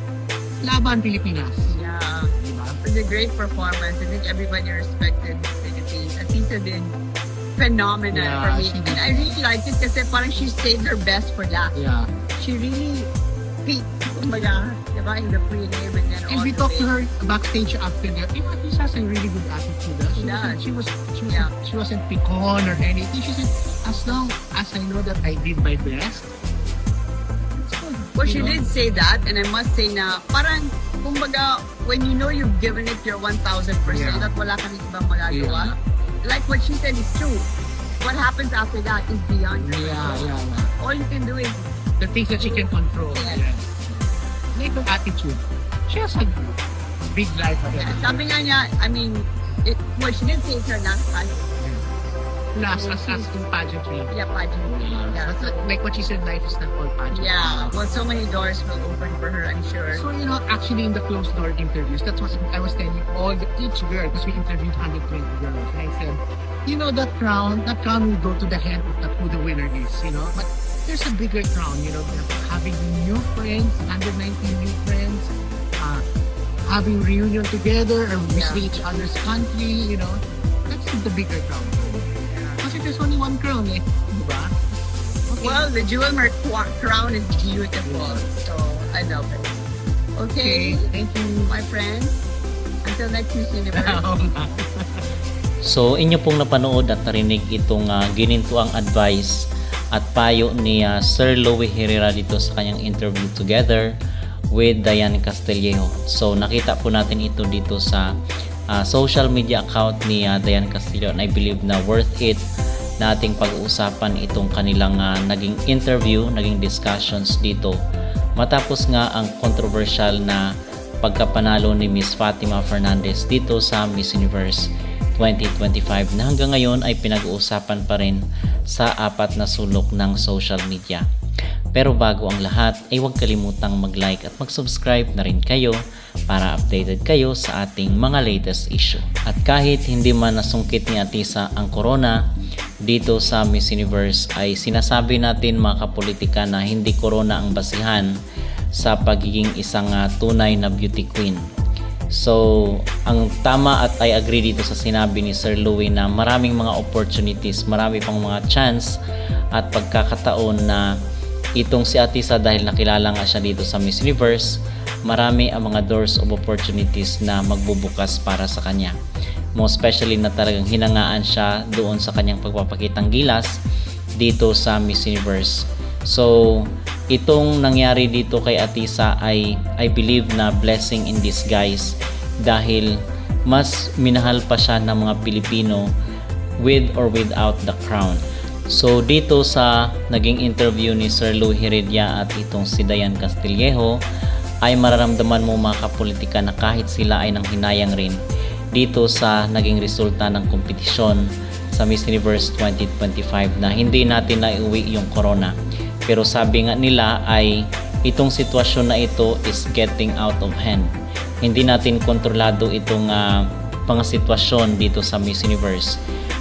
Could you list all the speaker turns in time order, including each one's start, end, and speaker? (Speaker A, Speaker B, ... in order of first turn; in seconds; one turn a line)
Speaker A: 0.6-1.7
Speaker B: 1.7-2.3
Speaker A: 2.3-2.8
Speaker B: 2.8-7.0
Speaker B: 7.5-11.7
Speaker A: 8.1-9.3
Speaker A: 11.7-12.1
Speaker B: 12.3-13.1
Speaker B: 13.6-16.9
Speaker A: 16.3-26.3
Speaker B: 20.1-20.6
Speaker A: 27.5-28.6
Speaker B: 28.1-37.5
Speaker A: 33.9-34.3
Speaker A: 35.3-35.7
Speaker B: 38.0-41.7
Speaker A: 39.6-40.7
Speaker A: 42.0-46.5
Speaker B: 43.1-43.4
Speaker A: 47.1-48.2
Speaker B: 47.8-51.5
Speaker A: 51.6-51.8
Speaker A: 52.5-54.1
Speaker B: 52.6-53.4
Speaker B: 54.1-55.7
Speaker A: 54.7-57.8
Speaker B: 57.1-60.0
Speaker A: 59.9-76.0
Speaker A: 76.7-84.6
Speaker B: 78.3-78.7
Speaker B: 82.3-82.6
Speaker A: 85.3-85.7
Speaker B: 85.4-89.6
Speaker A: 87.8-88.2
Speaker B: 90.2-90.9
Speaker A: 90.4-91.5
Speaker B: 91.4-92.2
Speaker B: 92.8-94.0
Speaker A: 93.7-95.1
Speaker C: 95.6-99.3
Speaker C: 99.9-103.9
Speaker C: 104.5-108.0
Speaker C: 108.7-112.4
Speaker C: 113.0-117.8
Speaker C: 118.4-120.4
Speaker C: 121.0-128.2
Speaker C: 128.7-131.0
Speaker C: 131.7-135.8
Speaker C: 136.3-142.2
Speaker C: 142.8-148.1
Speaker C: 148.8-151.4
Speaker C: 152.2-158.9
Speaker C: 159.5-160.8
Speaker C: 161.6-164.5
Speaker C: 165.1-168.9
Speaker C: 169.6-173.5
Speaker C: 174.2-182.9
Speaker C: 183.5-185.8
Speaker C: 186.6-188.2
Speaker C: 188.7-194.0
Speaker C: 194.6-198.2
Speaker C: 198.7-201.2
Speaker C: 201.7-205.5
Speaker C: 206.1-207.5
Speaker C: 208.1-210.9
Speaker C: 211.4-216.0